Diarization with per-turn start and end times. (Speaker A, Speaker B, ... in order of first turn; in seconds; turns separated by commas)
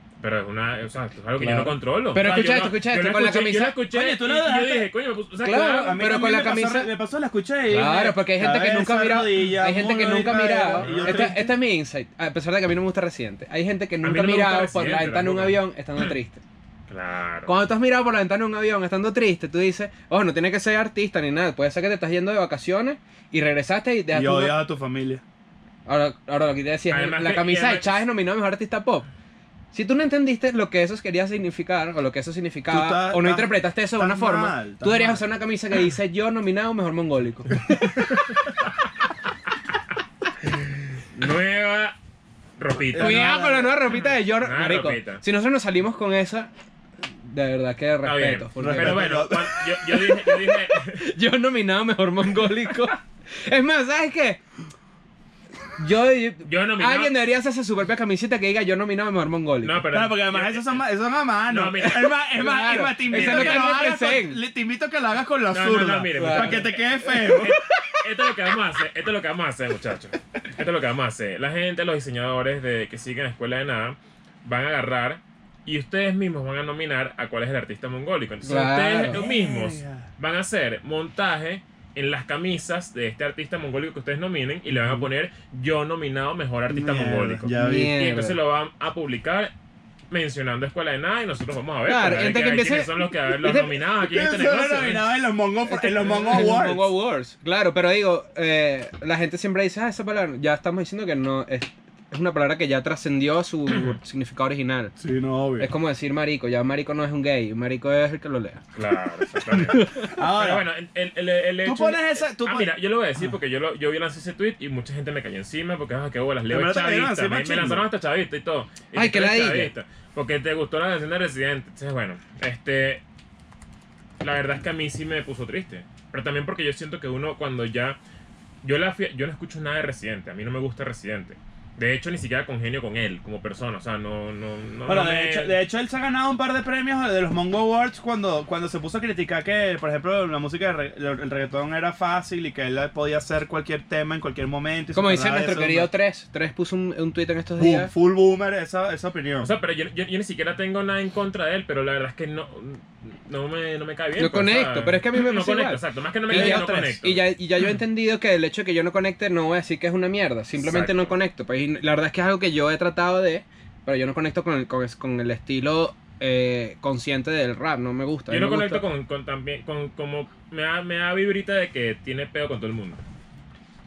Speaker A: 0.2-6.0, Speaker B: 1.4-1.8, Speaker C: 2.1-3.8, Speaker B: 3.9-4.9, Speaker C: 5.4-6.9, Speaker B: 5.7-11.5, Speaker C: 7.7-16.4, Speaker A: 10.8-11.3, Speaker A: 14.0-16.1, Speaker A: 16.9-17.5, Speaker C: 17.5-24.5, Speaker B: 24.1-25.2, Speaker C: 25.9-29.1, Speaker A: 26.9-28.0, Speaker C: 29.7-38.2, Speaker B: 32.7-35.2, Speaker A: 41.0-42.0, Speaker A: 42.6-43.4, Speaker B: 42.9-43.7, Speaker C: 43.0-46.5, Speaker A: 43.9-45.2, Speaker C: 47.1-49.0, Speaker A: 48.0-51.0, Speaker B: 48.6-49.6, Speaker C: 50.2-54.4, Speaker C: 55.8-59.9, Speaker A: 56.5-57.1, Speaker A: 59.6-60.9, Speaker B: 59.9-67.5, Speaker A: 61.5-62.2, Speaker C: 62.3-64.4, Speaker A: 63.1-63.7, Speaker A: 65.5-89.5, Speaker C: 66.2-68.3, Speaker C: 78.4-79.2, Speaker B: 79.1-80.1, Speaker B: 84.7-85.1, Speaker B: 86.7-87.9, Speaker C: 87.5-88.4, Speaker A: 90.1-95.1, Speaker C: 91.8-93.7, Speaker B: 94.0-96.9, Speaker C: 95.7-104.9, Speaker B: 105.0-105.7, Speaker C: 105.6-108.6, Speaker A: 108.7-123.0, Speaker C: 109.5-110.1, Speaker B: 110.0-110.7, Speaker B: 111.6-113.3, Speaker B: 116.5-117.8, Speaker C: 118.9-119.7, Speaker A: 124.2-128.0, Speaker A: 128.6-135.6, Speaker B: 134.8-145.9, Speaker C: 144.9-147.9, Speaker B: 147.6-149.5, Speaker A: 149.4-157.2, Speaker C: 154.2-168.9, Speaker B: 156.3-157.0, Speaker A: 160.6-161.1, Speaker A: 168.3-173.0